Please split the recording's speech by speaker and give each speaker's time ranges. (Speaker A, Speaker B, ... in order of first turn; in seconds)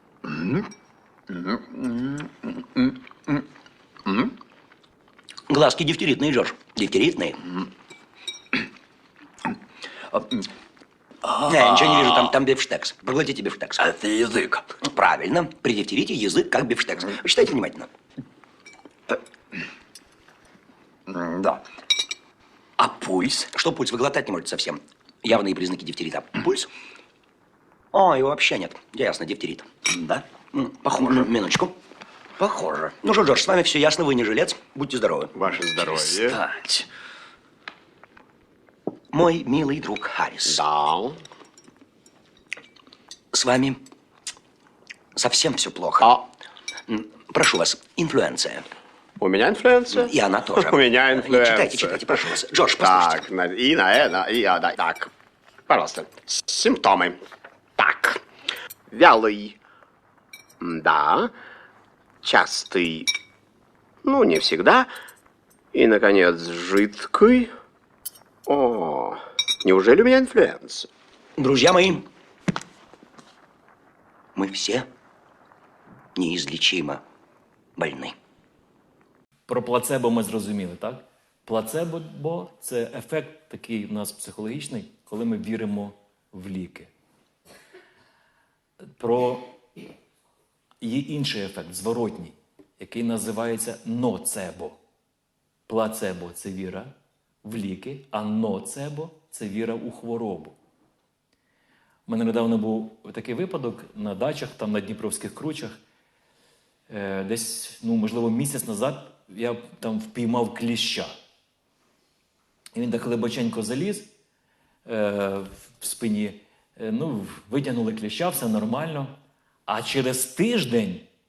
Speaker A: 0.2-0.7, 1.3-3.4, 4.1-4.3, 10.1-10.4, 11.2-12.3, 13.8-14.7, 21.1-21.6, 22.8-23.5, 36.0-36.9
Speaker B: 5.5-7.6, 11.3-13.9, 14.8-17.9, 23.5-26.7, 27.9-31.7, 32.4-35.3, 39.1-40.6, 43.3-43.8, 45.2-46.2, 46.9-48.7, 49.9-53.3, 71.4-72.0, 74.4-74.9, 76.2-77.0, 77.8-78.1
Speaker C: 35.4-36.4, 40.5-41.2, 49.2-52.2, 52.8-55.1, 55.7-57.2, 57.8-58.2, 58.9-59.6, 60.6-61.3, 62.2-63.1, 64.0-64.9, 65.7-67.5, 68.5-70.9
Speaker D: 79.5-86.9, 89.0-89.5, 90.8-94.8, 95.7-96.9, 97.4-100.6, 102.1-105.8, 106.9-111.1, 112.7-114.1, 114.9-119.1, 119.7-121.0